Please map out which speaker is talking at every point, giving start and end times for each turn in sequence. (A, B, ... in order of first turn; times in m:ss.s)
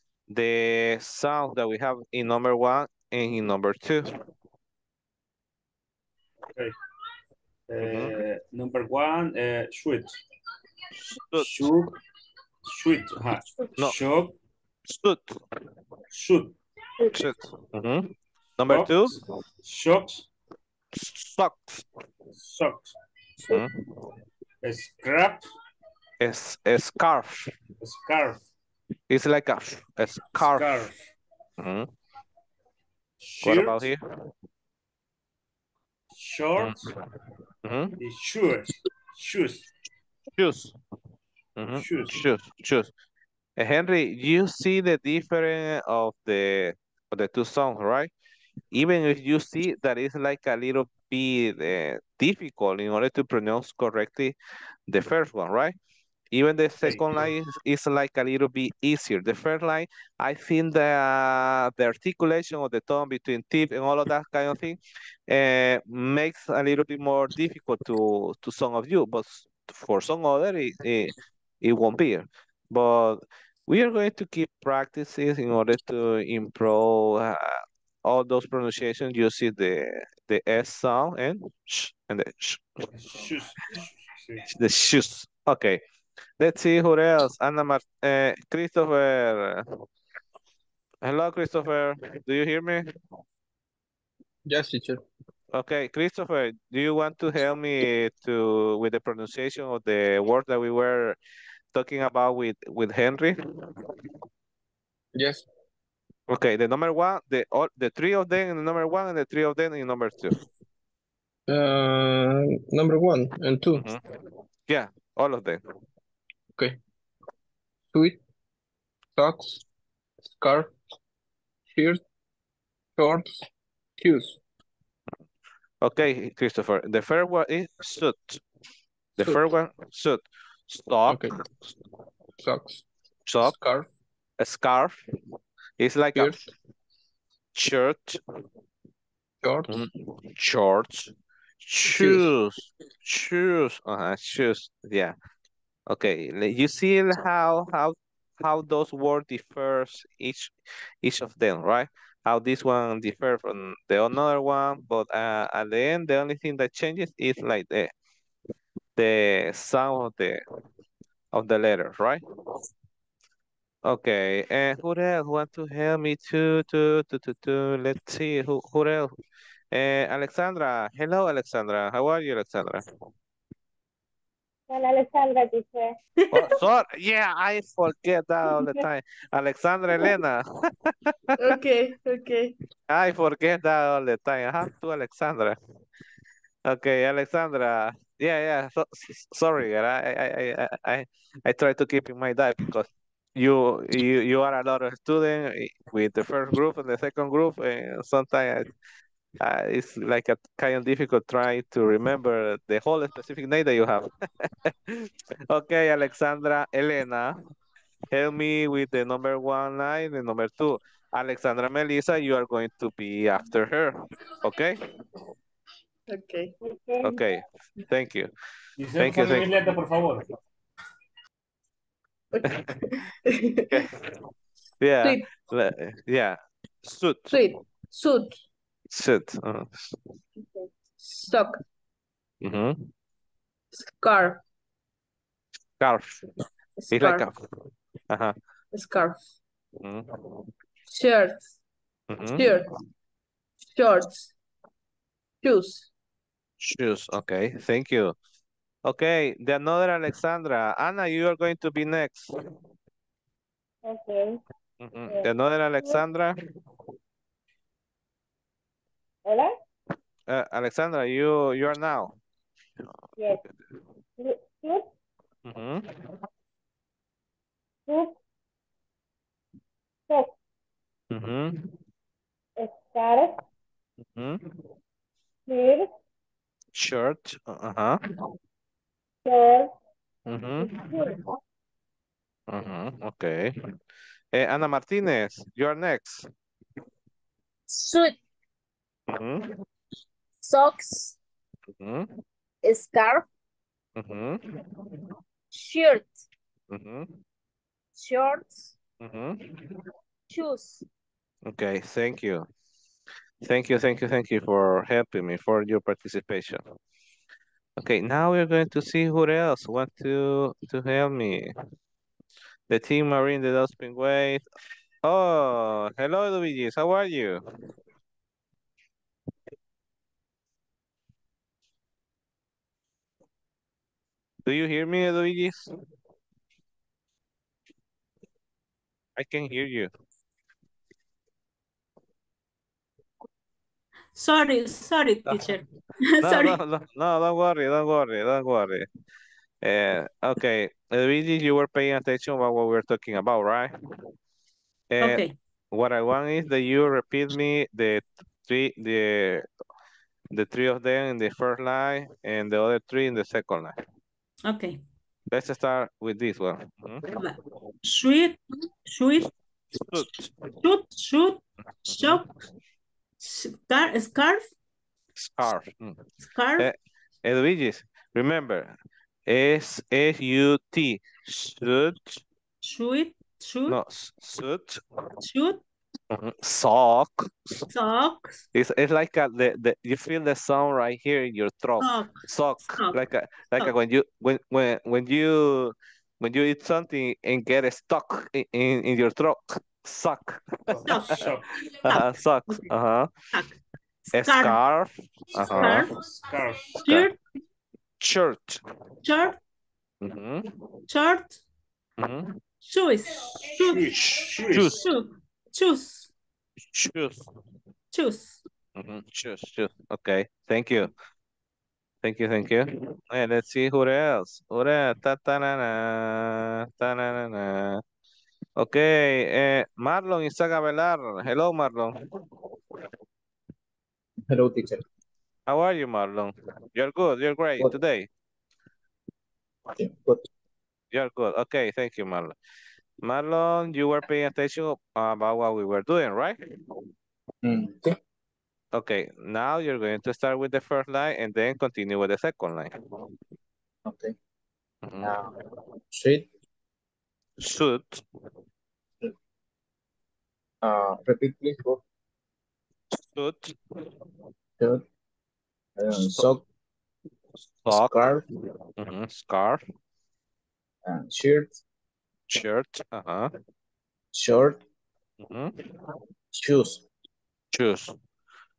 0:00.3-0:04.1 A
0:07.7-0:10.1 B
0:07.8-0:08.2 A
0:11.0-0:11.5 A
0:11.3-0:12.0 B
0:12.7-0:14.4 B
0:14.9-0:15.4 A
0:16.1-0:16.6 B
0:17.1-0:19.2 A
0:18.7-0:20.3 B
0:21.0-0:21.8 A
0:22.4-0:22.9 B
0:23.5-0:23.8 A
0:24.6-0:25.5 B
0:26.2-0:27.5 A
0:27.8-0:28.4 B
0:29.1-0:30.8 A
0:30.4-0:31.0 B
0:31.6-0:31.9 A
0:33.2-0:33.9 B
0:33.4-0:34.0 A
0:36.1-0:36.9 B
0:37.6-0:38.0 A
0:38.0-0:39.7 B
0:40.4-0:40.8 A
0:41.6-0:42.9 A
0:41.7-0:42.2 B
0:43.6-0:48.1 A
0:48.7-0:54.4 A
0:54.9-0:55.8 A
0:56.3-1:22.6 A
0:56.8-0:57.3 B
1:22.9-1:24.5 B
1:24.4-1:25.8 A
1:26.4-1:29.7 A
1:31.0-1:32.9 A
1:34.5-1:35.0 C
1:35.5-1:41.2 A
1:41.7-1:43.4 A
1:45.1-1:45.5 C
1:46.3-1:50.4 A
1:51.5-1:54.0 C
1:53.8-1:54.0 A
1:54.7-1:55.6 A
1:57.9-1:58.2 C
1:59.2-1:59.6 C
2:00.4-2:00.8 C
2:01.7-2:02.0 C
2:03.0-2:03.5 C
2:04.0-2:04.4 C
2:05.8-2:08.4 A
2:09.2-2:11.3 A
2:11.1-2:11.4 C
2:12.4-2:12.8 C
2:13.3-2:13.5 A
2:13.4-2:13.9 C
2:14.4-2:15.0 A
2:15.8-2:16.4 A
2:16.2-2:16.5 C
2:17.5-2:18.2 A
2:19.4-2:19.9 C
2:19.7-2:25.2 A
2:21.9-2:22.3 C
2:25.9-2:37.9 A
2:39.0-2:40.4 A
2:41.3-2:42.2 A
2:43.8-2:49.1 A
2:49.7-2:52.8 A
2:54.7-2:55.9 D
2:56.3-3:01.4 A
3:01.4-3:02.2 E
3:02.9-3:05.6 A
3:06.7-3:18.7 A
3:19.4-3:27.4 A
3:28.1-3:34.8 A
3:36.1-3:36.5 E
3:36.6-3:37.2 D
3:37.0-3:38.3 A
3:38.8-3:40.2 B
3:39.0-3:39.6 A
3:42.3-3:42.6 E
3:42.5-3:42.8 A
3:43.7-3:44.0 A
3:44.8-3:47.4 A
3:47.3-3:48.3 E
3:48.9-3:50.0 A
3:50.4-3:51.6 E
3:52.4-3:52.9 A
3:53.7-3:54.4 E
3:55.8-3:56.3 A
3:56.8-3:57.3 E
3:56.9-3:57.4 A
3:58.1-3:58.4 A
3:58.7-3:59.2 E
3:59.8-4:00.1 A
4:00.9-4:01.6 E
4:02.1-4:02.5 A
4:02.3-4:02.7 E
4:03.7-4:04.3 E
4:05.4-4:05.9 E
4:06.6-4:08.2 A
4:08.8-4:12.3 A
4:13.8-4:14.4 D
4:14.8-4:16.4 A
4:19.3-4:19.5 D
4:20.3-4:22.2 A
4:23.2-4:23.4 D
4:24.2-4:24.9 D
4:25.4-4:25.8 A
4:27.9-4:28.1 D
4:31.1-4:31.7 A
4:32.6-4:33.4 D
4:34.1-4:34.4 A
4:35.5-4:35.9 D
4:36.8-4:38.0 A
4:39.3-4:39.7 D
4:40.3-4:40.7 A
4:40.6-4:41.2 D
4:42.5-4:43.5 A
4:44.3-4:46.3 A
4:47.7-4:48.2 F
4:49.1-4:49.5 A
4:50.4-4:51.2 F
4:51.8-4:52.1 A
4:52.6-4:53.3 F
4:54.0-4:54.4 A
4:55.5-4:56.2 F
4:56.7-4:57.1 A
4:58.0-4:58.7 F
4:59.0-4:59.6 A
5:00.3-5:00.9 F
5:01.4-5:02.5 A
5:03.4-5:06.6 A
5:07.8-5:11.5 A
5:12.7-5:14.4 A
5:15.0-5:17.4 A
5:24.5-5:25.7 A
5:29.2-5:29.9 A
5:34.2-5:36.6 G
5:36.2-5:38.9 A
5:39.6-5:43.7 A
5:44.9-5:49.5 A
5:45.0-5:45.4 G
5:50.3-5:53.8 A
5:54.4-5:54.8 G
5:55.3-5:57.1 A
5:57.2-5:59.3 G
5:59.8-6:00.3 A
6:00.6-6:02.3 G
6:01.9-6:02.2 A
6:03.2-6:04.5 G
6:05.2-6:06.0 A
6:06.2-6:06.7 G
6:07.2-6:08.7 A
6:09.3-6:12.2 A
6:12.6-6:13.8 G
6:13.7-6:14.8 A
6:15.2-6:15.6 G
6:16.1-6:17.7 A
6:17.7-6:18.4 G
6:18.5-6:31.2 A
6:21.8-6:23.0 G
6:30.7-6:31.5 B
6:30.9-6:32.7 G
6:31.8-6:33.1 A
6:33.3-6:33.6 G
6:34.1-6:35.9 A
6:34.2-6:34.6 G
6:35.4-6:36.0 G
6:35.6-6:36.8 B
6:36.8-6:37.1 A
6:36.8-6:37.2 G
6:38.0-6:38.6 A
6:39.0-6:39.4 G
6:40.0-6:40.5 A
6:40.9-6:41.4 G
6:42.0-6:42.4 A
6:42.6-6:46.1 G
6:43.6-6:44.8 B
6:43.9-6:44.8 A
6:46.7-6:47.3 A
6:47.9-6:48.4 G
6:48.8-6:50.9 A
6:52.0-6:57.8 A
6:58.6-7:02.0 A
7:04.3-7:04.8 H
7:05.5-7:08.1 A
7:09.8-7:10.2 H
7:10.9-7:12.4 A
7:13.0-7:16.4 A
7:17.4-7:17.9 H
7:18.7-7:22.7 A
7:23.8-7:24.1 H
7:24.8-7:25.2 A
7:25.0-7:25.3 H
7:25.9-7:26.3 H
7:27.4-7:28.0 A
7:30.6-7:31.8 H
7:33.0-7:33.6 A
7:35.8-7:36.4 H
7:36.0-7:36.4 A
7:37.6-7:38.0 A
7:37.7-7:38.2 H
7:38.8-7:39.6 A
7:40.9-7:41.6 H
7:42.3-7:43.3 A
7:44.1-7:44.6 H
7:45.2-7:45.5 A
7:46.3-7:46.8 H
7:47.5-7:48.0 A